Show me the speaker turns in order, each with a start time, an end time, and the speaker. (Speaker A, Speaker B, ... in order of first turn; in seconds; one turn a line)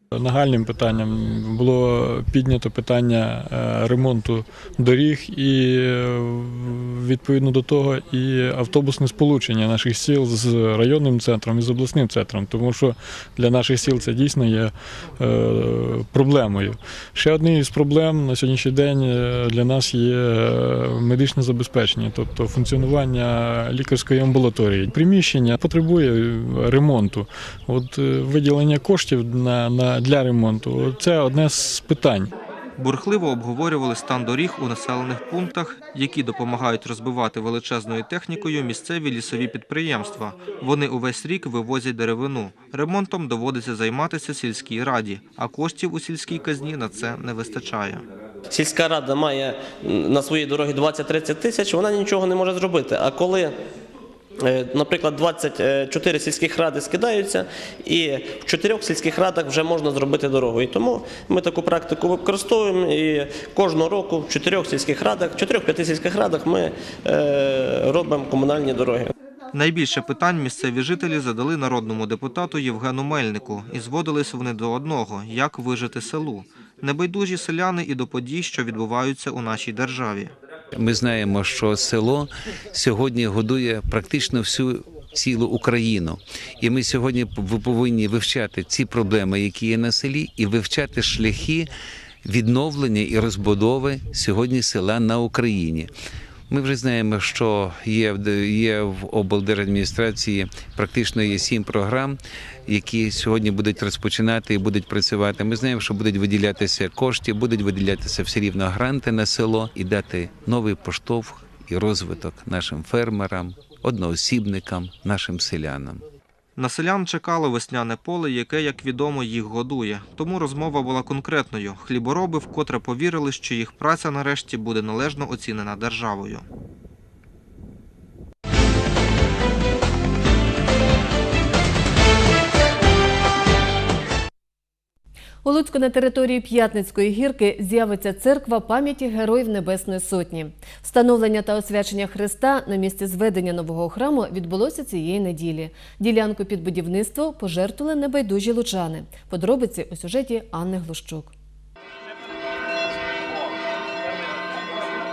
Speaker A: 0.1-32.3
Speaker B: 32.8-48.0
Speaker C: 48.5-53.5
Speaker C: 54.4-69.1
Speaker B: 69.5-80.3
Speaker D: 80.7-91.7
Speaker D: 92.2-95.9
Speaker D: 96.5-116.0
Speaker B: 116.6-126.4
Speaker E: 135.4-151.3